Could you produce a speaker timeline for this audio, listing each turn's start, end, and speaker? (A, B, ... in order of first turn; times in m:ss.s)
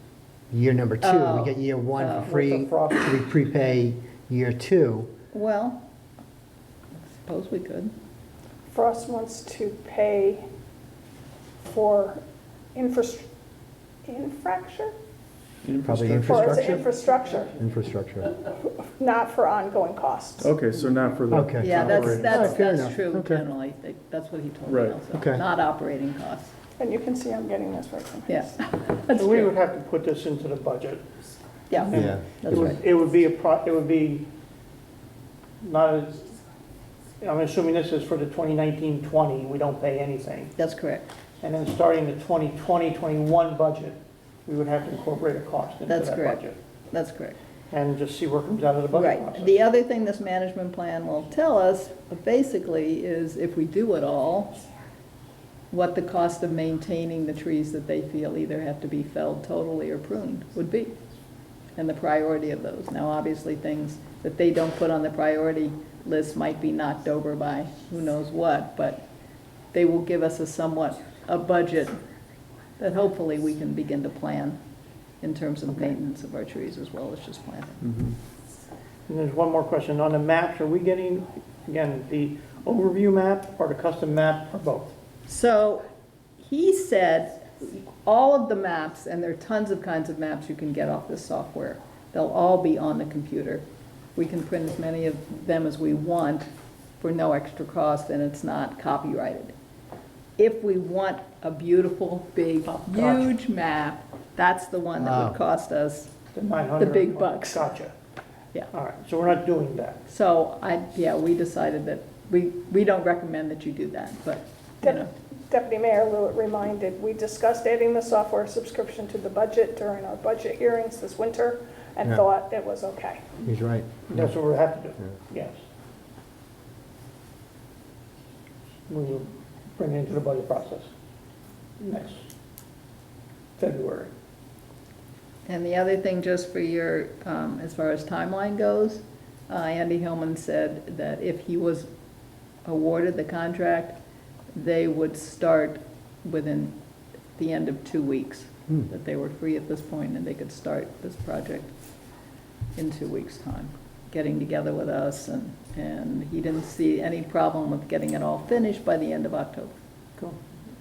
0:00.5-0:05.1 A
0:01.0-0:02.3 B
0:02.2-0:03.2 C
0:05.3-0:05.8 B
0:07.1-0:07.9 B
0:08.7-0:10.5 D
0:11.6-0:12.2 D
0:12.7-0:13.3 D
0:14.0-0:14.9 D
0:15.6-0:16.9 E
0:15.8-0:16.8 A
0:16.2-0:17.6 D
0:17.6-0:18.3 A
0:18.8-0:20.5 D
0:20.4-0:22.5 E
0:21.3-0:23.4 A
0:21.6-0:26.5 B
0:24.7-0:25.0 E
0:25.1-0:25.4 A
0:26.8-0:28.5 D
0:28.3-0:29.5 B
0:29.1-0:31.1 C
0:31.7-0:32.8 B
0:31.8-0:34.3 C
0:31.9-0:32.8 A
0:35.6-0:36.3 C
0:37.2-0:40.5 C
0:40.6-0:41.1 B
0:41.4-0:46.6 C
0:45.9-0:47.4 B
0:47.7-0:49.5 C
0:48.9-0:54.6 B
0:55.7-1:01.0 B
1:01.8-1:09.1 B
1:09.7-1:12.0 B
1:12.8-1:14.6 B
1:15.2-1:17.8 B
1:17.8-1:18.2 E
1:19.1-1:24.9 C
1:25.3-1:25.8 B
1:26.4-1:39.5 B
1:40.4-1:46.1 B
1:42.9-1:43.2 C
1:45.0-1:45.4 A
1:46.3-1:47.9 C
1:46.8-1:47.7 B
1:48.7-1:50.0 C
1:50.1-1:55.1 B
1:54.8-2:03.4 D
2:03.4-2:04.2 A
2:04.1-2:05.6 C
2:08.9-2:10.9 C
2:11.8-2:12.2 C
2:13.6-2:14.1 C
2:15.4-2:21.9 B
2:22.6-2:24.0 B
2:24.5-2:26.8 B
2:27.4-2:31.8 B
2:32.8-2:39.8 B